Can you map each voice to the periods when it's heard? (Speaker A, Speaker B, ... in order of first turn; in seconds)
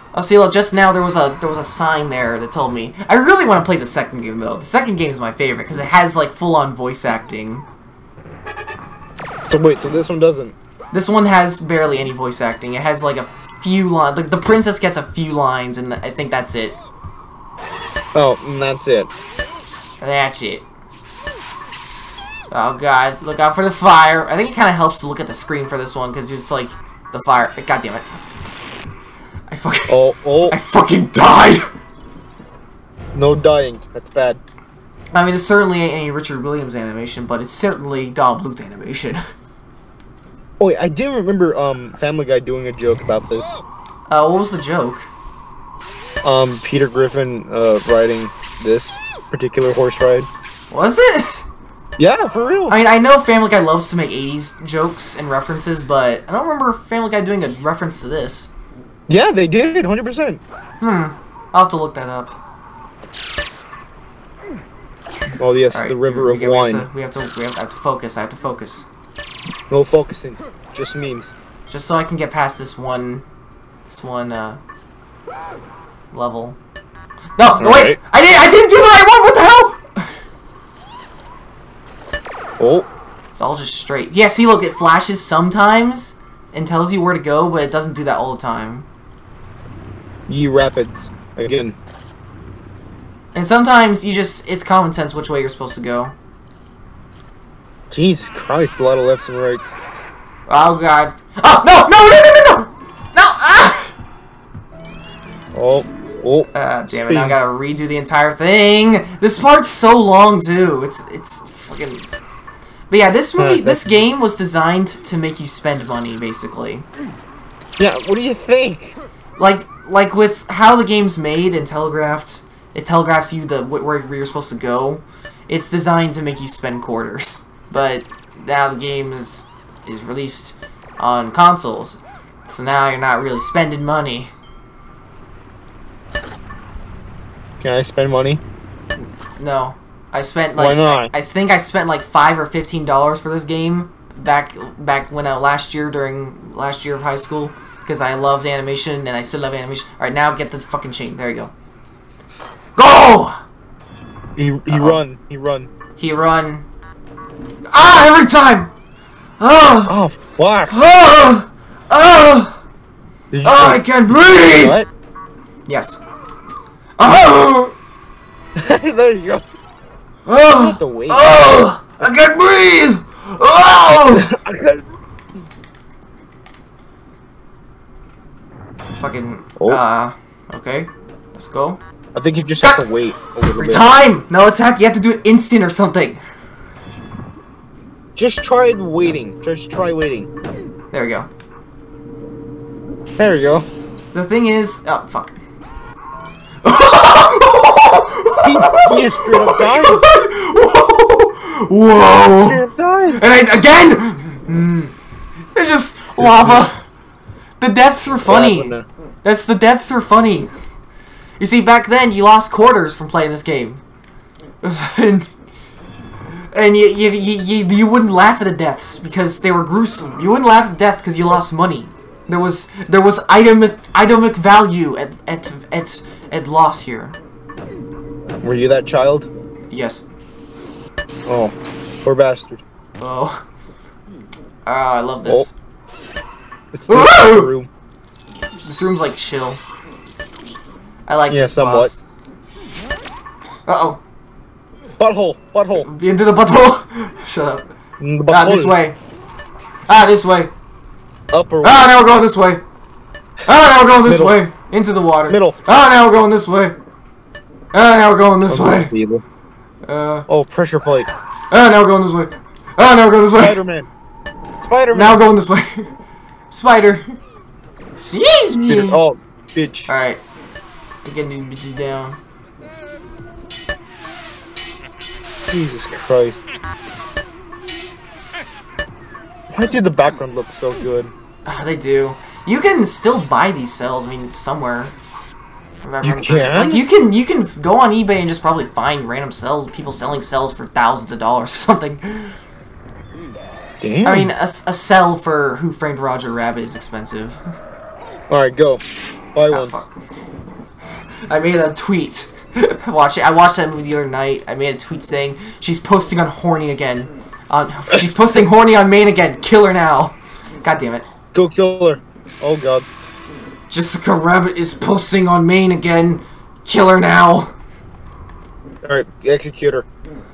Speaker A: 0.1-7.7, 10.9-16.8, 20.0-20.7, 22.5-28.1, 29.5-31.7, 35.1-39.2, 44.1-45.1, 50.7-51.4, 52.7-58.5, 60.8-62.4, 65.7-68.9, 71.7-73.2, 73.9-74.6, 76.1-76.6, 77.4-80.1, 83.3-88.9, 93.3-96.1, 100.5-103.9, 106.5-112.1, 112.9-116.8, 119.4-134.3, 139.0-151.5, 152.8-153.4, 154.7-155.0, 156.0-156.7, 157.7-158.7, 159.4-159.9, 160.7-162.6, 163.4-164.8, 165.7-166.0, 167.0-167.7, 170.2-174.3, 178.9-181.8, 183.5-186.2, 190.9-191.3, 194.1-195.4, 196.6-202.6, 203.1-204.9, 205.5-206.8, 207.6-210.5, 211.4-213.8, 214.6-215.3, 216.5-227.2, 229.7-230.1, 233.0-233.4, 234.6-235.6, 236.9-237.5, 238.6-239.6, 241.1-242.1, 243.7-244.0, 245.8-247.7, 248.3-248.9, 249.9-250.5, 251.6-252.6, 253.4-256.8, 257.7-258.9, 259.9-260.2, 261.5-263.6, 264.9-265.9, 266.5-267.2, 268.0-269.0, 269.9-270.2, 271.0-272.2, 281.4-284.9, 285.8-292.4, 294.0-297.4, 299.5-299.9, 301.3-311.1, 313.7-317.5
Speaker B: 9.4-10.6, 18.1-19.1, 29.9-30.6, 33.1-34.4, 40.6-43.6, 46.2-50.3, 52.0-52.8, 59.1-60.4, 65.4-66.9, 69.7-71.3, 77.6-78.0, 82.6-82.9, 90.3-91.8, 97.9-99.8, 105.5-107.4, 113.4-114.0, 117.8-118.9, 137.6-138.4, 140.6-141.1, 154.3-155.7, 159.9-160.8, 163.3-164.9, 168.6-169.4, 170.5-171.4, 173.9-174.8, 182.1-183.9, 188.2-190.3, 193.2-193.7, 198.4-200.0, 202.3-203.2, 206.2-206.7, 208.2-208.8, 228.4-229.3, 231.3-232.6, 236.7-237.7, 241.3-241.9, 245.0-245.9, 248.0-248.8, 251.3-251.9, 254.0-254.4, 255.3-255.6, 258.5-259.2, 260.3-261.1, 263.4-263.9, 264.6-265.2, 268.6-269.9, 275.5-276.5, 279.5-281.1, 286.0-286.8, 293.8-294.3, 298.3-298.8, 299.3-299.8, 311.3-312.9, 318.8-319.9